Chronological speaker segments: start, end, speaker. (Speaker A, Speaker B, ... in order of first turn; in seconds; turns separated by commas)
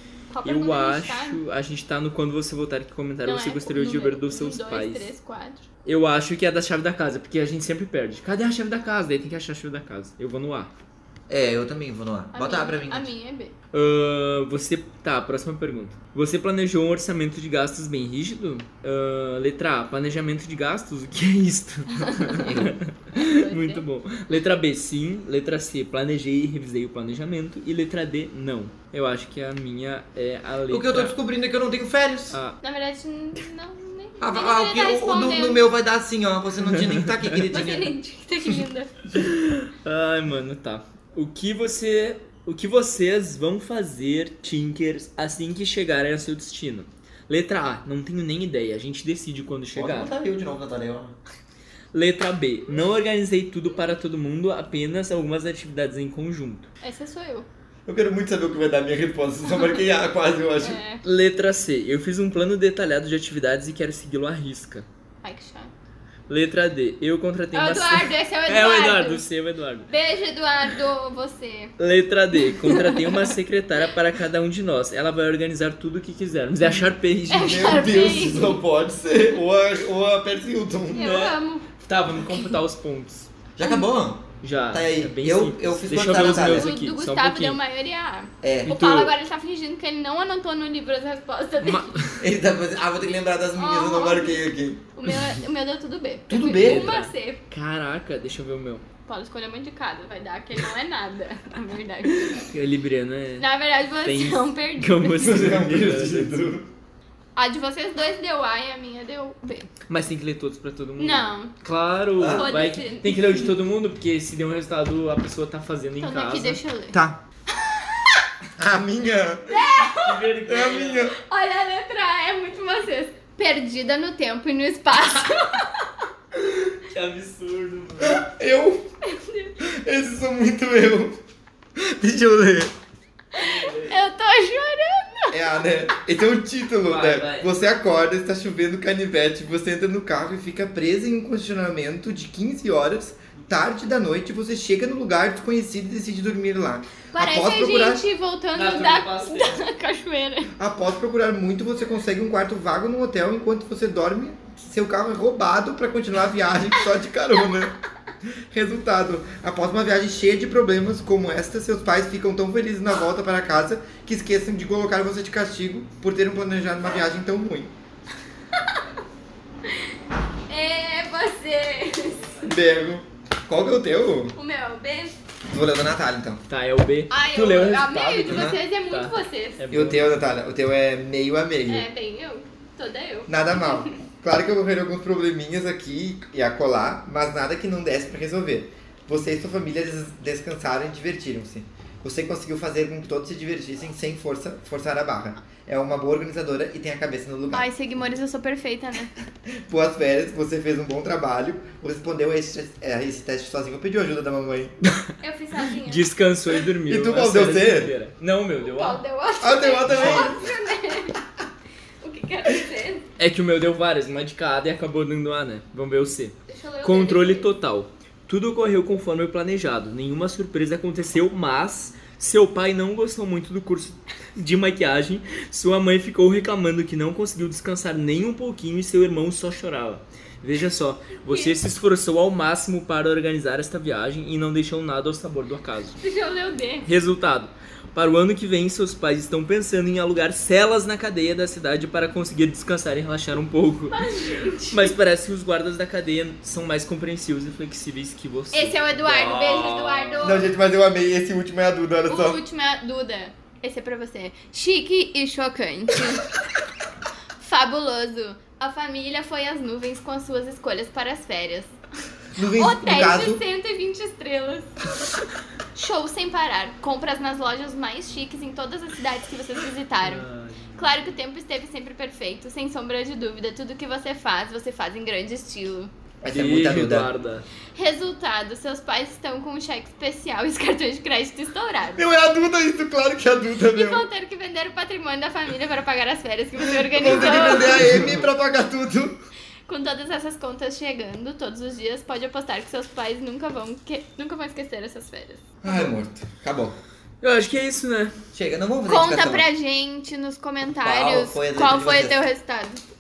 Speaker A: 0.3-1.4, Speaker B: 0.4-5.1, Speaker A: 3.2-5.7, Speaker B: 5.8-10.7, Speaker C: 11.3-13.1, Speaker A: 12.3-13.5, Speaker B: 13.7-31.1, Speaker A: 22.0-22.5, Speaker C: 22.5-22.8, Speaker A: 23.1-23.8, Speaker C: 30.7-32.4, Speaker B: 32.3-32.6, Speaker A: 32.6-35.6, Speaker C: 34.2-37.9, Speaker B: 36.6-37.4, Speaker A: 37.5-39.0, Speaker B: 39.1-50.1, Speaker C: 49.8-51.2, Speaker B: 51.9-56.7, Speaker A: 56.8-57.5, Speaker C: 57.9-60.8, Speaker A: 60.6-61.0, Speaker B: 61.0-64.9, Speaker A: 65.2-65.7, Speaker B: 66.3-69.9, Speaker A: 67.5-69.3, Speaker A: 69.9-71.8, Speaker B: 71.8-77.9, Speaker A: 72.5-73.3, Speaker A: 77.3-78.6, Speaker C: 77.4-81.2, Speaker A: 80.9-81.7, Speaker B: 81.0-83.3, Speaker C: 83.6-86.7, Speaker B: 84.4-87.6, Speaker A: 86.2-92.1, Speaker C: 88.4-88.8, Speaker B: 88.7-89.1, Speaker B: 91.6-92.2, Speaker C: 92.2-94.8, Speaker A: 93.6-97.4, Speaker C: 96.3-97.0, Speaker B: 96.6-98.8, Speaker A: 99.1-102.5, Speaker B: 102.3-106.5, Speaker A: 103.4-105.3, Speaker C: 105.2-106.7, Speaker A: 107.4-109.7, Speaker B: 109.9-116.6, Speaker A: 111.0-111.5, Speaker C: 112.2-112.5, Speaker A: 112.3-113.5, Speaker A: 116.0-117.0, Speaker C: 116.9-117.2, Speaker C: 118.6-119.7, Speaker A: 119.5-120.4, Speaker B: 119.9-121.1, Speaker C: 120.5-121.2, Speaker A: 121.1-125.9, Speaker B: 126.4-128.2, Speaker C: 128.0-128.9, Speaker A: 129.0-129.6, Speaker C: 129.6-131.2, Speaker C: 131.8-132.8, Speaker A: 133.3-135.6, Speaker B: 133.3-134.0, Speaker C: 135.3-148.0, Speaker B: 136.8-137.5, Speaker A: 147.1-150.5, Speaker B: 148.5-149.6, Speaker C: 150.6-167.7, Speaker A: 168.6-168.8, Speaker A: 170.5-172.3, Speaker C: 172.4-174.3, Speaker A: 174.3-175.2, Speaker C: 175.5-176.4, Speaker B: 176.5-180.1, Speaker A: 177.1-179.6, Speaker C: 178.3-178.6, Speaker C: 179.7-181.9, Speaker A: 181.7-183.9, Speaker C: 183.3-197.7, Speaker A: 197.5-199.1, Speaker C: 199.5-204.8, Speaker A: 205.2-206.1, Speaker B: 205.8-209.0, Speaker C: 206.7-207.9, Speaker A: 208.6-211.2, Speaker C: 209.4-210.4, Speaker B: 209.8-210.3, Speaker A: 212.0-213.1, Speaker B: 213.2-236.0, Speaker A: 216.5-217.5, Speaker A: 231.3-231.6, Speaker A: 236.0-236.9, Speaker B: 236.8-244.0, Speaker A: 243.9-244.9, Speaker B: 244.7-250.3, Speaker A: 248.5-250.5, Speaker C: 250.2-252.4, Speaker A: 252.1-256.3, Speaker A: 257.4-261.8, Speaker C: 262.4-263.4, Speaker A: 262.6-264.9, Speaker A: 265.8-270.2, Speaker B: 270.0-271.0, Speaker A: 270.8-275.9, Speaker C: 276.2-277.1, Speaker B: 276.3-277.4, Speaker A: 277.8-282.0, Speaker C: 281.9-284.1, Speaker A: 283.7-288.0, Speaker C: 286.7-289.2, Speaker B: 287.4-288.1, Speaker A: 289.7-295.9, Speaker C: 295.6-296.8, Speaker B: 297.2-298.1, Speaker C: 298.3-299.5, Speaker A: 298.9-302.8, Speaker C: 300.8-302.2